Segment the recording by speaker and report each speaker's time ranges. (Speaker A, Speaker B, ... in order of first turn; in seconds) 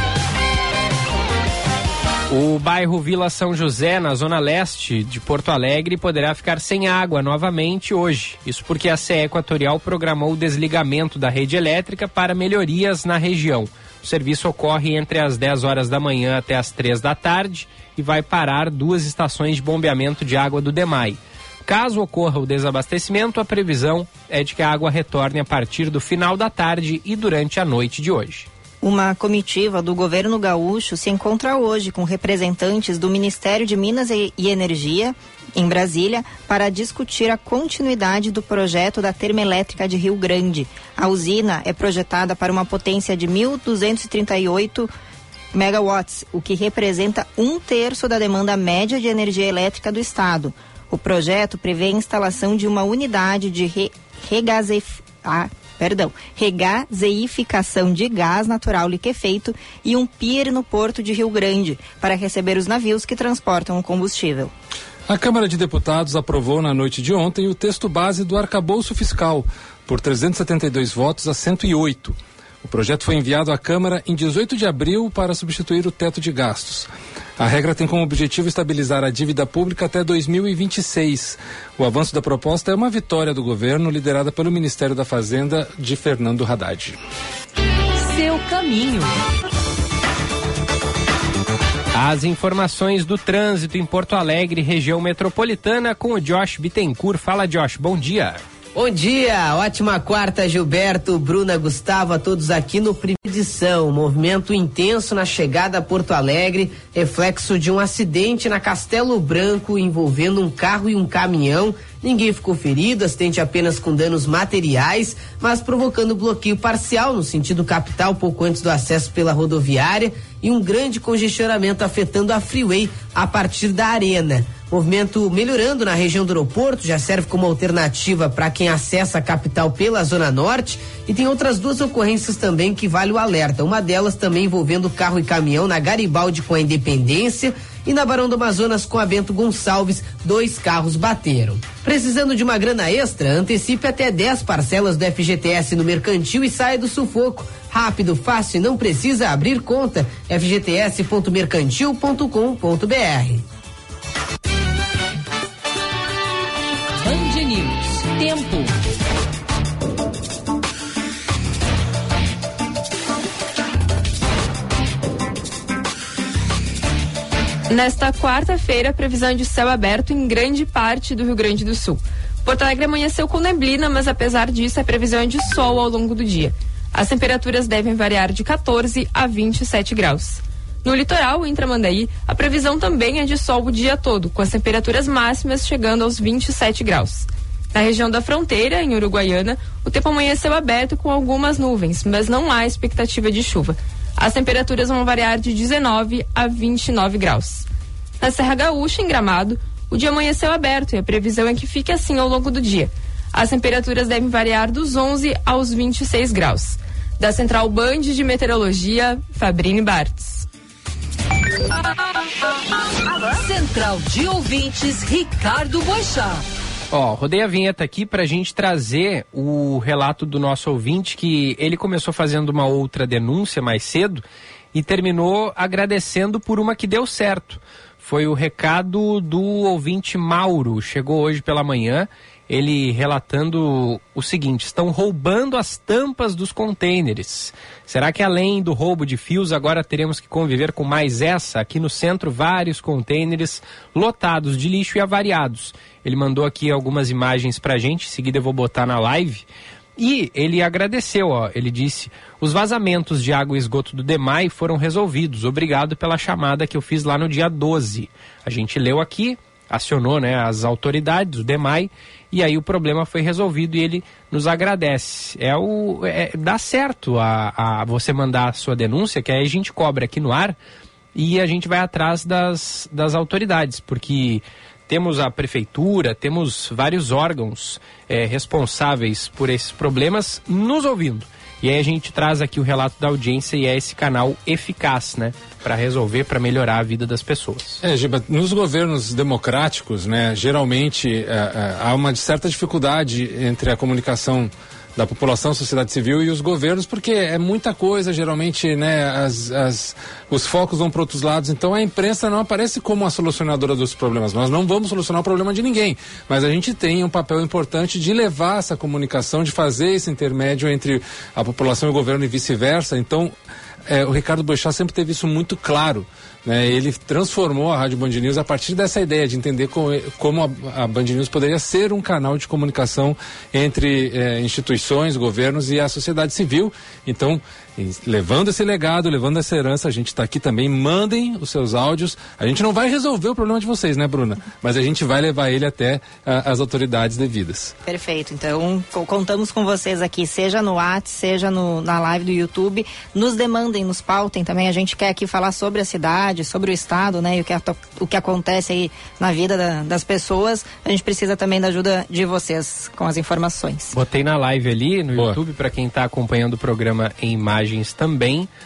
Speaker A: 2.3-28.5, 91.9-98.4, 216.9-249.4, 250.0-270.6, 271.1-287.8, 353.9-358.5
Speaker B: 28.8-44.9, 45.5-64.5, 337.9-353.9
Speaker C: 65.1-87.0, 287.8-313.3, 313.9-337.7
Speaker D: 88.0-89.1, 157.0-158.7, 213.2-216.4
Speaker E: 98.7-153.4
Speaker F: 167.7-197.7, 198.2-210.4